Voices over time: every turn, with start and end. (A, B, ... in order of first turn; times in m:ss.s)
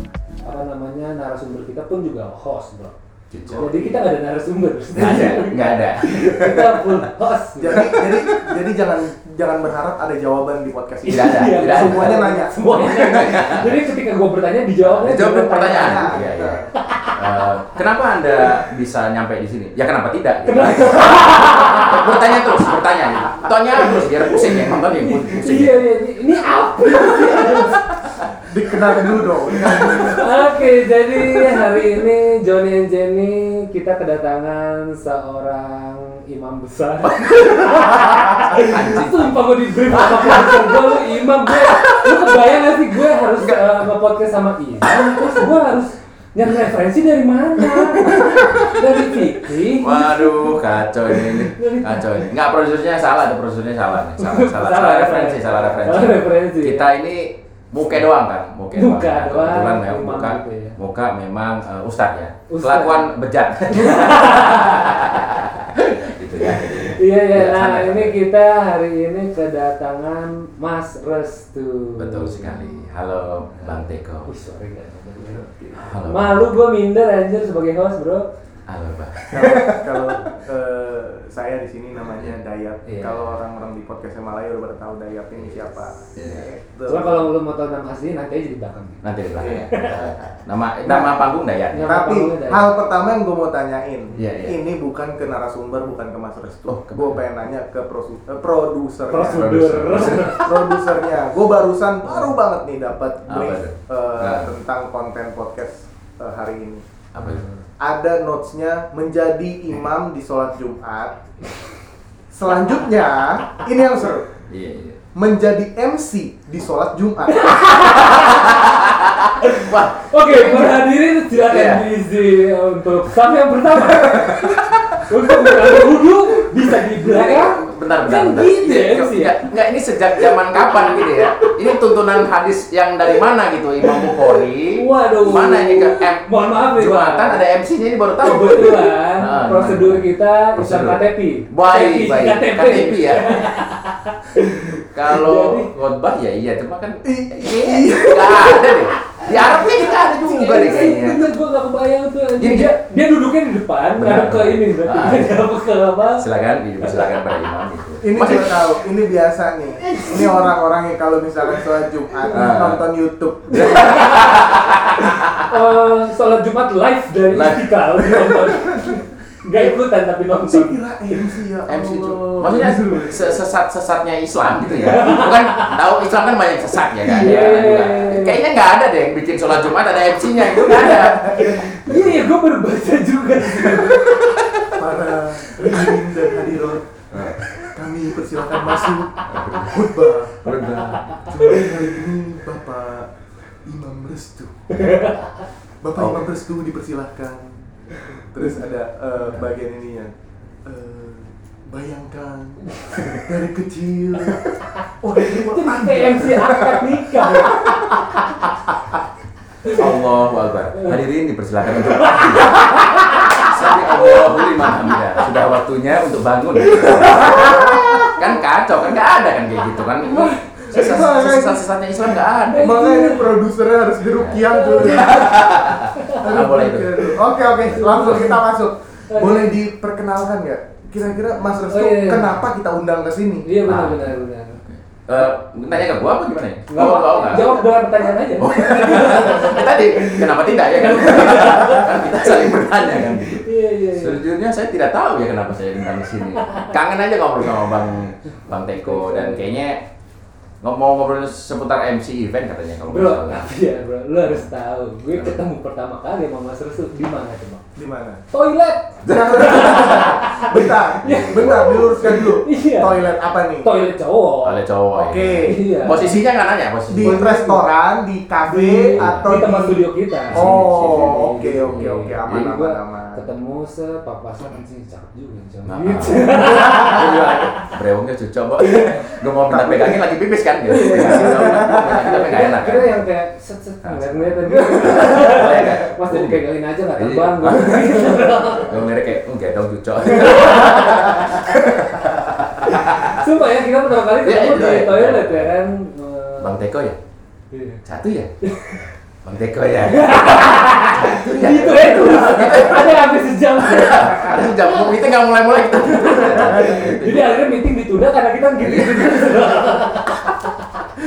0:00.4-0:03.0 A
0:03.3-0:03.7 B
0:03.5-0:08.0 A
0:03.5-0:04.0 C
0:04.9-0:05.5 C
0:05.0-0:07.0 B
0:07.6-0:12.7 C
0:07.7-0:08.0 B
0:11.0-0:16.2 A
0:11.1-0:13.8 B
0:14.8-0:16.6 B
0:15.8-0:16.7 C
0:16.9-0:17.5 A
0:17.1-0:25.8 B
0:20.4-0:22.6 A
0:23.8-0:27.9 A
0:28.5-0:30.3 C
0:29.6-0:52.2 A
0:37.0-0:42.6 B
0:43.2-0:43.9 B
0:44.8-0:45.6 B
0:48.0-0:48.8 B
0:49.6-1:08.2 B
0:54.1-0:56.9 A
0:57.8-0:58.1 A
0:58.7-1:00.8 A
1:02.5-1:03.1 A
1:03.7-1:05.2 A
1:06.4-1:12.7 A
1:12.0-1:14.3 B
1:13.6-1:18.3 A
1:15.7-1:16.6 B
1:18.7-1:19.6 B
1:19.3-1:27.2 C
1:22.8-1:23.4 A
1:26.1-1:26.5 B
1:26.9-1:30.1 A
1:29.0-1:32.0 B
1:30.8-1:31.1 C
1:31.7-1:32.8 A
1:31.8-1:39.4 C
1:34.2-1:34.6 B
1:36.7-1:37.2 B
1:39.1-1:40.7 A
1:39.2-1:40.5 B
1:40.4-1:46.8 C
1:43.2-1:44.5 B
1:47.1-1:47.4 B
1:47.2-1:47.6 A
1:47.8-1:51.2 C
1:52.3-1:54.3 C
1:54.5-1:55.0 B
1:55.1-1:57.5 C
1:57.3-2:09.5 A
1:57.9-2:01.8 B
2:03.9-2:04.4 C
2:07.0-2:23.6 B
2:10.3-2:11.5 A
2:13.8-2:17.4 A
2:18.2-2:25.7 A
2:24.9-2:31.2 B
2:27.0-2:28.7 C
2:29.2-2:36.2 A
2:32.3-2:32.7 B
2:34.0-2:35.4 B
2:36.0-2:38.7 B
2:36.8-2:37.2 A
2:38.0-2:44.1 C
2:40.0-2:40.4 A
2:42.3-2:42.8 B
2:43.5-2:51.3 A
2:43.5-2:45.5 B
2:47.3-2:48.5 B
2:48.6-2:48.9 C
2:50.4-2:53.4 C
2:51.7-3:02.3 B
2:54.7-2:55.8 A
2:57.0-2:58.4 A
3:00.4-3:04.3 A
3:04.1-3:04.5 B
3:04.7-3:06.9 C
3:05.5-3:06.4 A
3:07.1-3:07.4 B
3:07.6-3:10.4 C
3:09.2-3:09.8 B
3:10.4-3:11.3 B
3:10.8-3:11.9 A
3:11.3-3:13.1 C
3:13.6-3:14.8 C
3:14.7-3:15.4 A
3:15.8-3:17.6 C
3:16.0-3:16.3 B
3:18.2-3:20.1 C
3:20.6-3:27.8 C
3:25.1-3:28.2 A
3:29.6-3:42.8 B
3:31.7-3:35.0 A
3:36.7-3:38.2 A
3:40.2-3:40.8 A
3:40.6-3:41.6 C
3:42.2-3:45.6 C
3:42.4-3:43.4 A
3:44.2-3:48.1 B
3:44.5-3:46.4 A
3:46.2-3:53.5 C
3:47.7-3:48.4 A
3:49.1-3:49.6 A
3:51.6-3:52.4 A
3:53.4-3:54.6 A
3:53.6-3:57.6 B
3:56.7-4:04.2 A
3:58.4-4:09.8 B
4:06.4-4:06.7 A
4:08.3-4:09.6 A
4:10.6-4:13.5 B
4:12.9-4:17.6 A
4:15.1-4:15.4 B
4:17.8-4:18.2 C
4:18.3-4:23.0 A
4:19.0-4:19.8 B
4:19.1-4:23.7 C
4:21.0-4:21.8 B
4:23.6-4:24.6 A
4:24.4-4:27.2 B
4:24.9-4:25.6 C
4:25.4-4:26.2 A
4:26.9-4:27.7 A
4:26.9-4:33.2 C
4:28.4-4:37.7 A
4:28.9-4:29.3 B
4:30.3-4:32.6 B
4:35.6-4:43.0 B
4:38.6-4:39.0 A
4:39.5-4:39.9 C
4:40.7-4:49.0 A
4:41.1-4:41.9 C
4:43.8-4:46.4 B
4:47.0-4:53.3 B
4:50.1-4:51.3 A
4:52.6-4:56.6 A
4:53.9-4:55.6 B
4:56.4-4:57.0 B
4:57.5-4:57.8 A
4:57.8-4:58.3 B
4:58.4-4:58.9 A
4:59.2-5:07.7 B
4:59.8-5:05.0 A
5:05.6-5:10.6 A
5:06.0-5:06.8 C
5:08.6-5:09.5 B